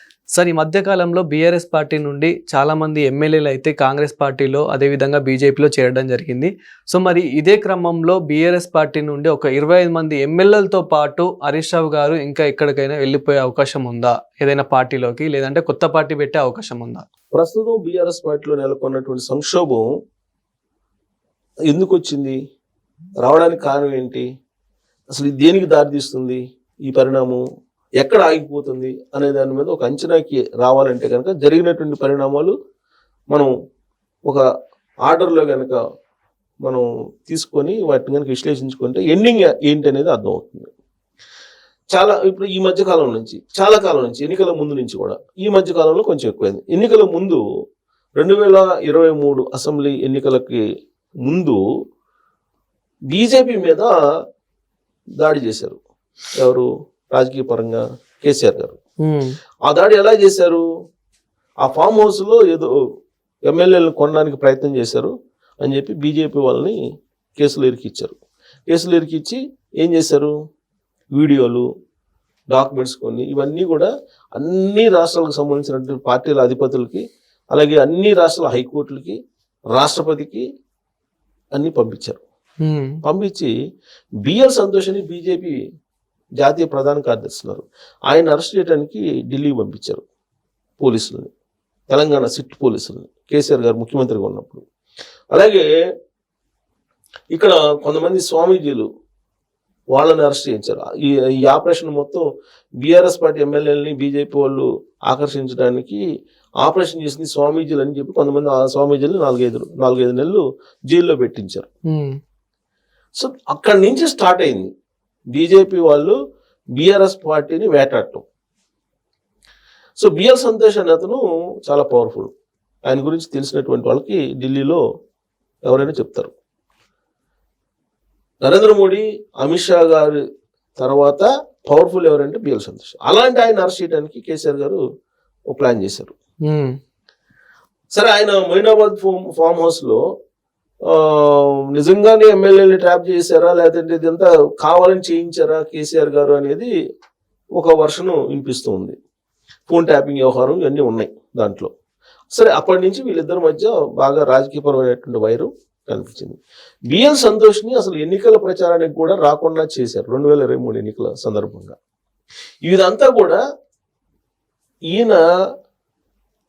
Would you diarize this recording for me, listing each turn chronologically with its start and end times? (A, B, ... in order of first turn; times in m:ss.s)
0:00.4-0:17.0 A
0:17.3-0:19.9 B
0:21.7-0:22.4 B
0:23.2-0:24.2 B
0:25.1-0:27.4 B
0:28.0-0:32.5 B
0:35.0-0:35.8 B
0:36.6-0:40.7 B
0:41.9-0:47.4 B
0:48.2-0:50.6 B
0:51.2-0:51.6 B
0:53.1-0:53.9 B
0:55.2-0:55.8 B
0:56.4-0:58.8 B
0:59.0-0:59.3 A
0:59.6-1:00.6 B
1:01.6-1:02.7 B
1:03.4-1:06.8 B
1:07.4-1:08.2 B
1:08.7-1:10.3 B
1:11.1-1:11.6 B
1:12.5-1:19.2 B
1:19.7-1:20.4 B
1:21.5-1:22.2 B
1:22.6-1:23.0 A
1:23.0-1:23.5 B
1:24.2-1:25.5 B
1:26.4-1:30.0 B
1:30.8-1:31.3 B
1:31.9-1:34.6 B
1:35.3-1:35.6 B
1:37.3-1:38.9 B
1:39.9-1:42.2 B
1:42.8-1:46.0 B
1:46.6-1:51.7 B
1:51.9-1:52.2 A
1:53.2-1:54.7 B
1:55.3-1:56.2 B
1:56.8-1:58.2 B
2:00.0-2:02.3 B
2:02.9-2:04.8 B
2:05.7-2:06.3 B
2:08.4-2:10.2 B
2:10.8-2:14.8 B
2:15.5-2:16.1 B
2:16.4-2:16.7 A
2:17.9-2:20.0 B
2:20.9-2:26.7 B
2:27.6-2:28.9 B
2:29.7-2:31.7 B
2:32.3-2:36.4 B
2:36.9-2:41.8 B
2:42.6-2:43.4 B
2:44.9-2:45.2 B